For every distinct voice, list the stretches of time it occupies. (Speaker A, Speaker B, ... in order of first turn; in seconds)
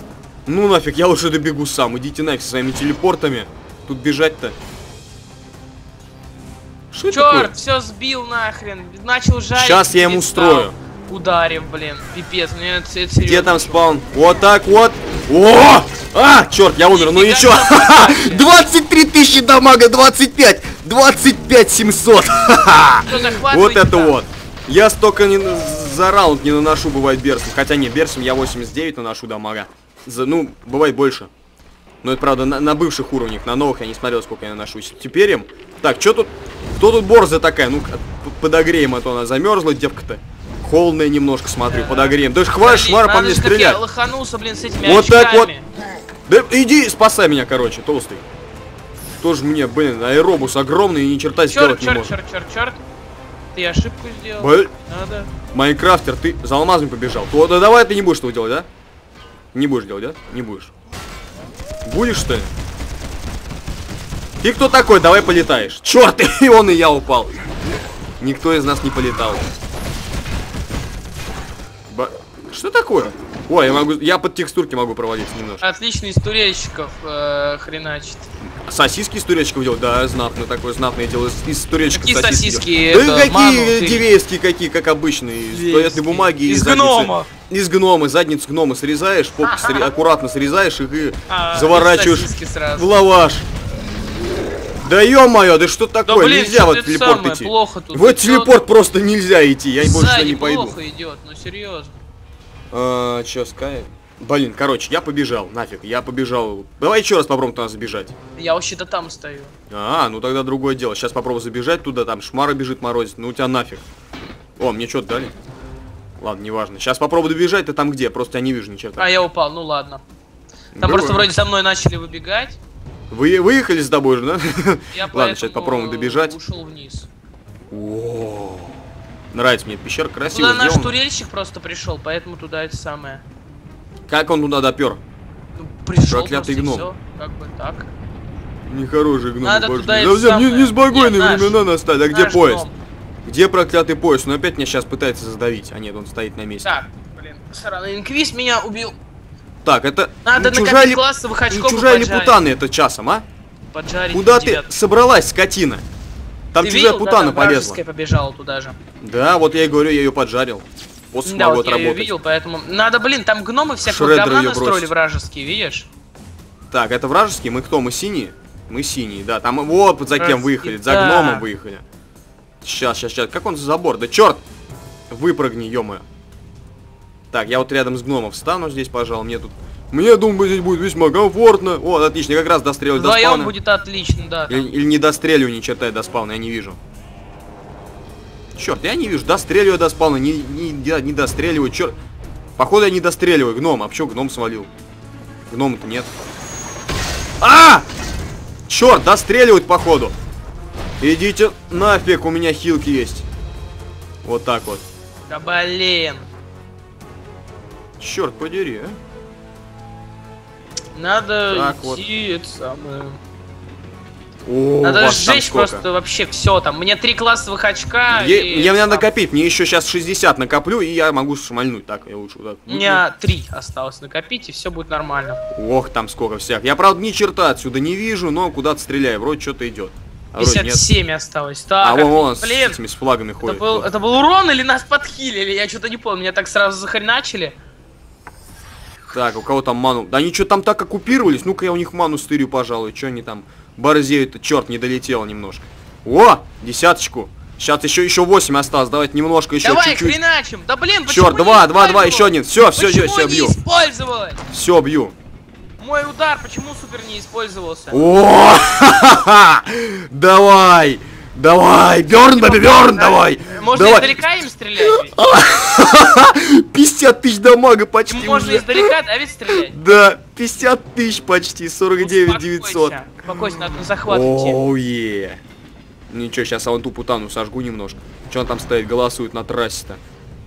Speaker A: 0.5-4.6, 6.9-7.5, 9.6-10.7, 13.2-31.3, 32.0-43.8, 44.8-45.5, 46.3-48.2, 49.2-52.1, 54.4-54.7, 55.5-58.7, 59.5-60.7, 61.9-62.5, 64.4-67.3, 68.2-69.4, 71.9-75.6, 78.6-93.5, 94.8-100.8, 102.7-108.1, 109.7-113.8, 114.6-115.3, 116.2-119.1, 120.7-121.3, 123.1-126.3, 127.7-128.8, 129.3-130.9, 134.1-135.0, 136.0-136.9, 138.7-142.7, 143.2-146.7, 149.7-153.2, 154.1-155.8, 156.5-157.8, 159.0-162.2, 163.8-164.9, 166.7-171.8, 172.6-174.4, 175.1-176.1, 177.3-183.5, 184.5-186.8, 188.6-191.9, 192.6-194.7, 195.5-196.1, 197.4-197.9, 198.7-200.2, 201.0-203.3, 204.2-204.8, 208.0-209.0, 211.5-212.0, 214.4-215.8, 218.1-223.0, 225.5-230.8, 231.8-233.9, 239.1-250.2, 251.1-253.6, 254.5-255.1, 257.9-264.3, 264.8-268.9, 269.5-272.9, 274.1-275.4, 276.1-280.0
Speaker B: 7.1-13.8, 16.9-18.5, 23.1-24.2, 41.7-45.6, 51.5-52.8, 53.5-55.3, 75.6-78.3, 81.9-84.1, 85.5-87.3, 89.4-89.9, 91.3-92.9, 96.1-98.6, 99.8-102.0, 108.4-109.5, 119.0-120.0, 120.8-122.6, 124.9-127.1, 130.3-133.2, 135.6-137.9, 139.4-141.6, 142.1-142.7, 146.6-149.0, 150.2-152.4, 153.7-154.7, 156.6-158.8, 161.3-165.9, 170.2-171.5, 182.9-184.7, 205.3-206.3, 210.9-213.2, 214.8-219.1, 222.7-225.4, 230.4-232.8, 233.4-237.6, 249.6-254.4, 255.8-258.0, 262.3-265.1, 268.1-269.9, 272.0-274.6